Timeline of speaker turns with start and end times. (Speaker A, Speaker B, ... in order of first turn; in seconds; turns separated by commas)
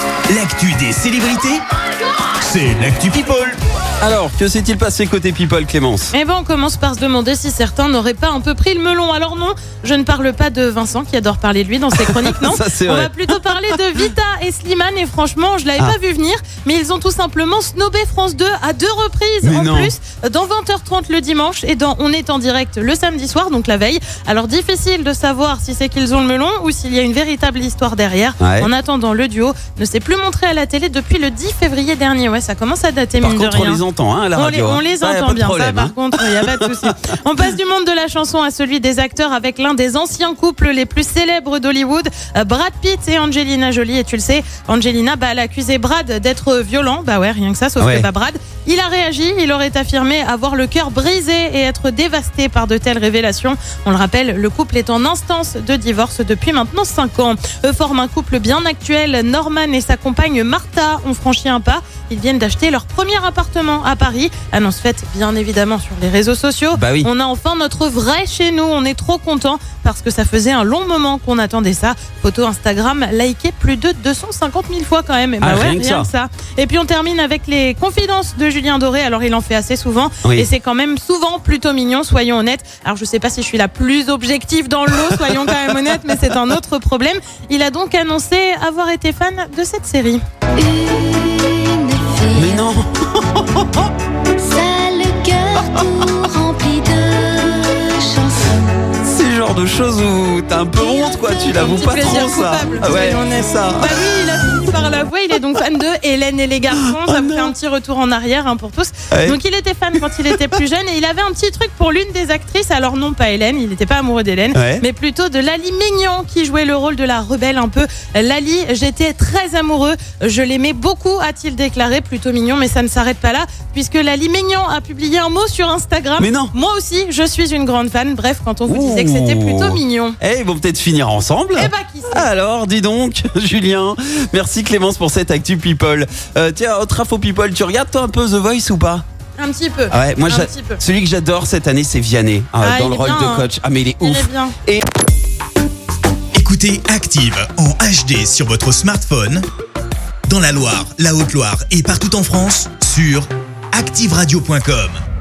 Speaker A: 0.3-1.6, Speaker A: 2.4-3.6, Speaker B: 4.0-6.1, Speaker C: 6.1-33.8, Speaker B: 11.9-13.1, Speaker B: 19.4-19.9, Speaker B: 28.4-28.7, Speaker B: 33.2-36.9, Speaker C: 34.3-90.2, Speaker B: 47.8-48.1, Speaker B: 66.7-67.1, Speaker B: 75.4-76.1, Speaker B: 85.2-85.5, Speaker D: 90.6-92.6, Speaker B: 92.3-93.9, Speaker D: 94.3-98.5, Speaker B: 99.0-104.6, Speaker D: 100.8-101.5, Speaker C: 101.5-130.2, Speaker B: 106.9-107.5, Speaker B: 109.1-109.4, Speaker B: 114.5-114.8, Speaker B: 126.2-126.5, Speaker B: 128.7-139.0, Speaker C: 131.6-132.3, Speaker C: 139.4-140.8, Speaker B: 139.9-144.8, Speaker C: 142.6-143.5, Speaker C: 144.0-144.5, Speaker A: 146.3-149.4, Speaker A: 150.3-155.0